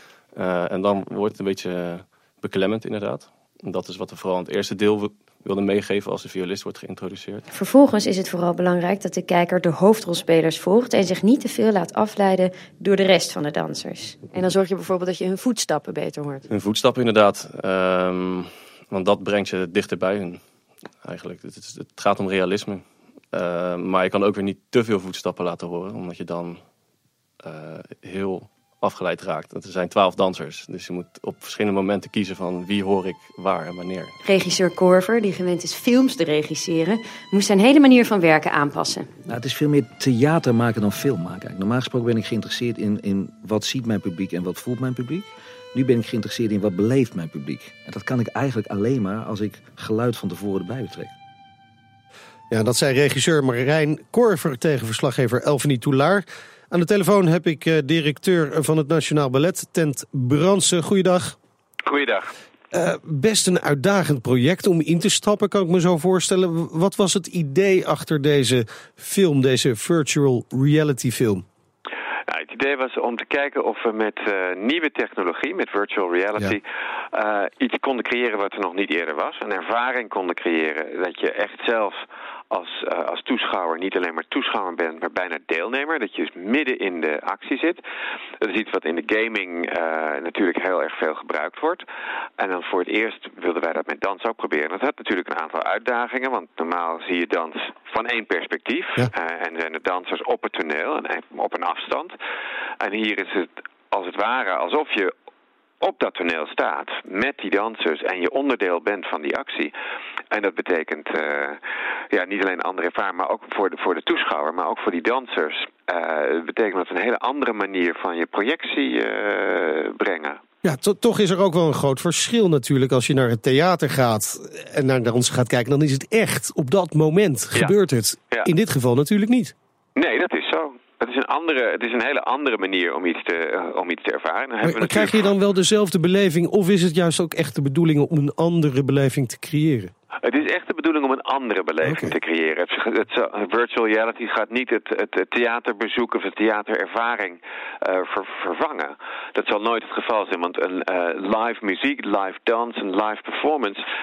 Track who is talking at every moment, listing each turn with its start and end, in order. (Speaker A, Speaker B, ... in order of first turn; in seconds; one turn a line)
Speaker A: 0.3-7.5
Speaker B: 7.5-16.5
Speaker A: 16.5-20.4
Speaker A: 21.0-26.6
Speaker A: 27.4-34.2
Speaker B: 34.2-39.1
Speaker C: 39.3-51.1
Speaker D: 52.5-61.4
Speaker E: 61.9-62.3
Speaker D: 62.7-71.5
Speaker E: 72.3-87.8
Speaker E: 88.4-91.8
Speaker E: 92.4-102.2
Speaker E: 102.8-105.1
Speaker E: 105.8-109.7
Speaker E: 110.3-111.6
Speaker E: 112.1-120.4
Speaker D: 120.6-129.5
Speaker E: 130.0-135.3
Speaker D: 134.6-139.9
Speaker E: 140.2-153.8
Speaker D: 141.8-142.2